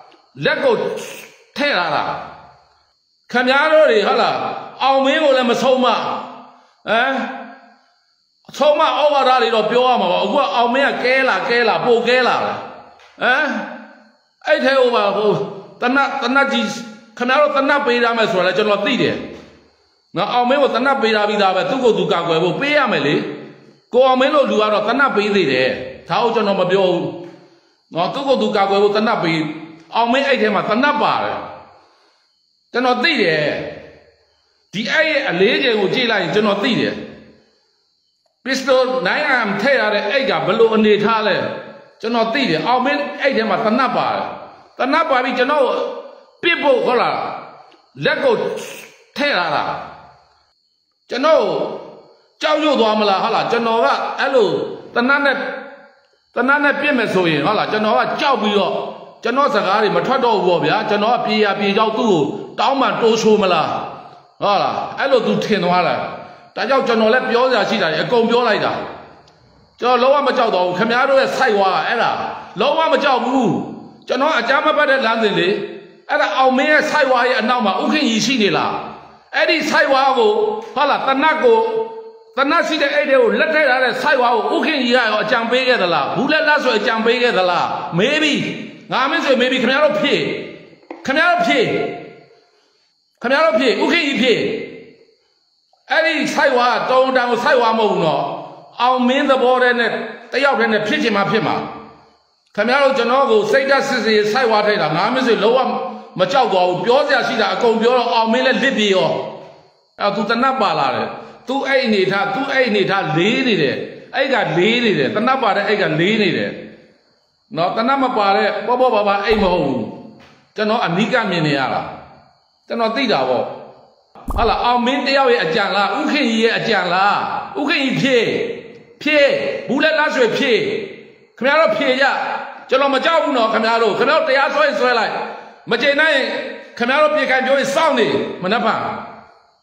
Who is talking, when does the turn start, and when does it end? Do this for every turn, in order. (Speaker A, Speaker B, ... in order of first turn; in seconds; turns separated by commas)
Speaker A: 0.3-2.2, Speaker A: 3.3-6.3, Speaker A: 6.8-7.4, Speaker A: 8.5-12.6, Speaker A: 13.2-13.7, Speaker A: 14.4-19.2, Speaker A: 20.1-23.3, Speaker A: 23.9-27.2, Speaker A: 27.9-31.4, Speaker A: 32.7-33.8, Speaker A: 34.7-37.0, Speaker A: 38.4-47.4, Speaker A: 47.9-49.8, Speaker A: 51.1-51.8, Speaker A: 52.4-55.5, Speaker A: 56.3-63.9, Speaker A: 64.4-68.8, Speaker A: 69.8-92.0, Speaker A: 93.2-94.7, Speaker A: 95.9-101.7, Speaker A: 102.5-109.3, Speaker A: 110.0-116.6, Speaker A: 117.5-120.0, Speaker A: 120.5-121.9, Speaker A: 122.7-123.6, Speaker A: 124.3-139.1